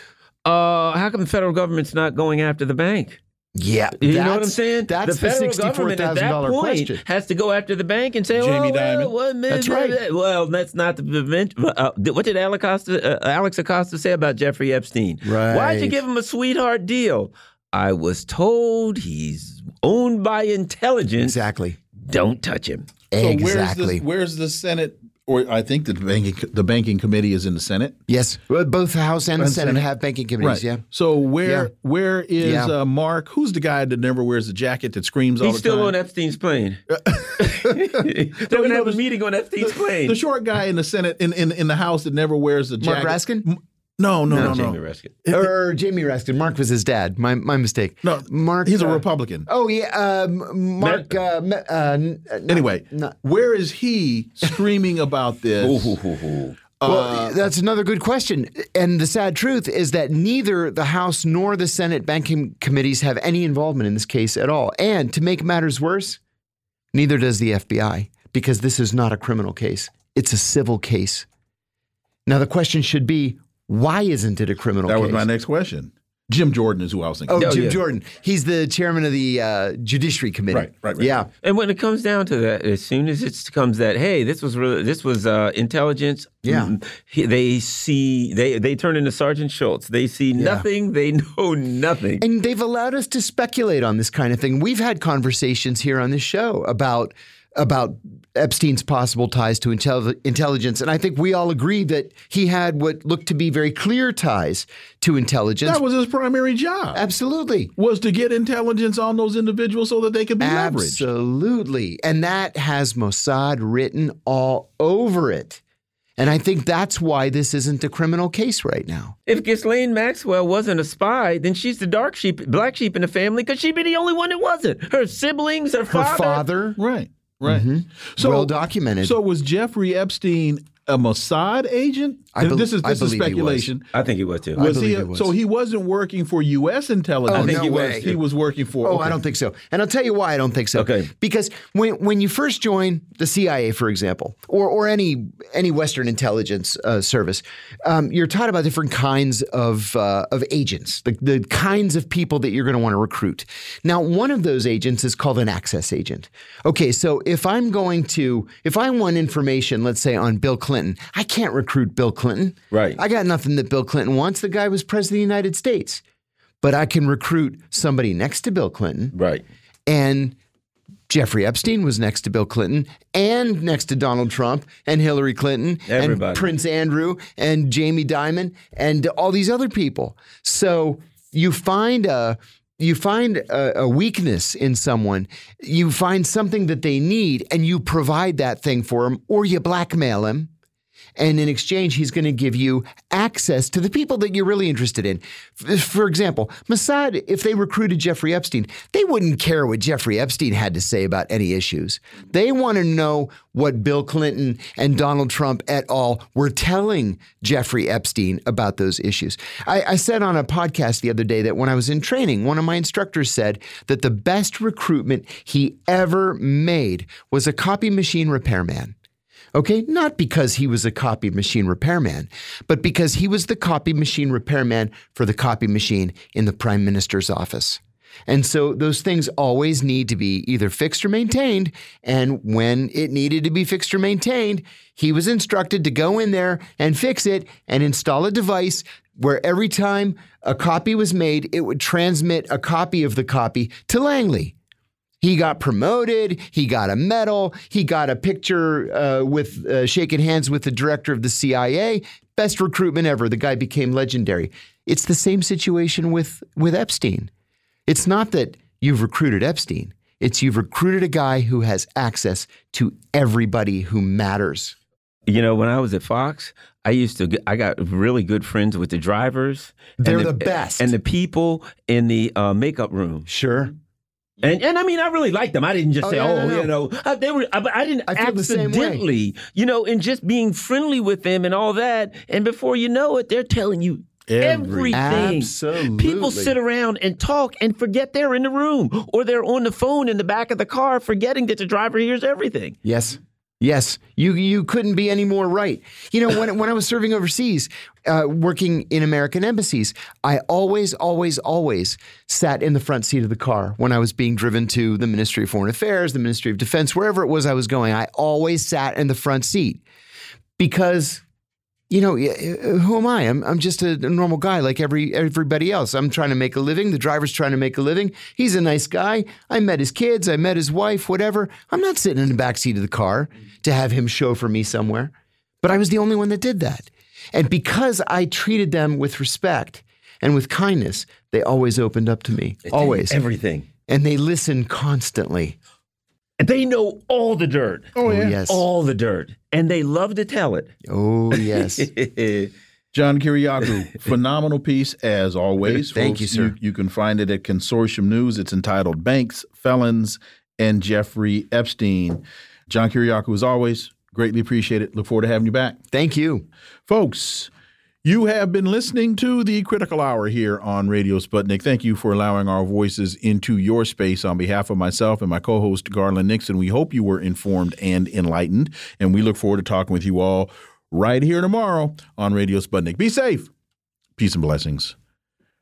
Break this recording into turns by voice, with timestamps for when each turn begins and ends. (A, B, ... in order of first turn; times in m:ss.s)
0:00.4-0:03.2 A
0:03.6-0:07.0 B
0:04.0-0:21.4 A
0:08.3-0:09.1 C
0:09.5-0:10.0 B
0:15.2-0:16.0 B
0:21.2-0:21.8 B
0:22.0-0:22.9 A
0:23.1-0:24.0 B
0:23.1-0:28.0 C
0:28.1-0:30.8 B
0:29.4-0:29.8 C
0:30.4-0:35.9 C
0:31.4-0:31.7 B
0:32.4-0:32.7 B
0:35.4-0:36.8 A
0:37.0-0:37.7 C
0:37.4-0:40.2 A
0:38.5-0:39.0 C
0:39.7-0:45.5 C
0:42.8-0:43.5 B
0:44.3-0:44.7 B
0:44.3-0:45.1 A
0:45.3-0:53.1 B
0:48.0-0:49.5 C
0:50.8-0:51.1 A
0:52.5-0:56.0 C
0:55.6-0:56.6 A
0:56.8-0:57.4 C
0:56.8-1:06.2 B
1:06.9-1:11.3 B
1:12.3-1:15.3 B
1:14.8-1:17.5 C
1:17.3-1:21.3 B
1:17.4-1:17.8 A
1:20.5-1:21.2 C
1:21.4-1:32.2 A
1:26.4-1:26.7 B
1:30.4-1:30.6 B
1:32.2-1:45.8 B
1:45.6-1:47.0 C
1:46.9-1:47.7 B
1:47.8-1:51.0 C
1:50.4-1:55.6 B
1:56.2-1:59.2 B
1:59.3-2:06.4 A
2:05.9-2:06.8 B
2:06.8-2:13.8 C
2:07.4-2:09.2 B
2:12.3-2:13.7 B
2:13.9-2:14.6 A
2:14.6-2:15.3 B
2:14.6-2:19.2 C
2:17.3-2:18.1 B
2:17.3-2:18.2 A
2:18.8-2:46.0 B
2:20.8-2:21.1 A
2:42.7-2:43.0 A
2:46.6-2:49.1 B
2:49.1-2:49.4 A
2:49.9-2:50.4 B
2:51.1-3:10.5 B
2:55.9-2:56.5 A
3:11.2-3:38.9 B
3:39.6-4:04.5 B
4:05.2-4:17.3 B
4:17.9-4:24.7 B
4:25.3-4:33.3 A
4:30.0-4:30.9 B
4:33.3-4:33.7 B
4:34.4-4:52.8 A
4:36.0-4:36.7 B
4:38.1-4:39.0 B
4:44.3-4:45.3 C
4:44.9-4:46.6 B
4:52.8-5:09.8 B
5:10.6-5:11.2 B
5:11.9-5:33.2 B
5:32.6-5:33.7 A
5:33.9-5:35.6 B
5:36.4-5:37.9 A
5:38.0-5:38.4 C
5:38.0-5:38.6 B
5:38.5-5:40.7 A
5:40.9-5:41.9 B
5:41.3-5:42.5 A
5:42.9-5:55.8 C
5:45.7-5:46.6 B
5:55.9-5:56.5 B
5:56.9-5:57.5 C
5:58.0-6:13.5 C
6:14.2-6:14.9 C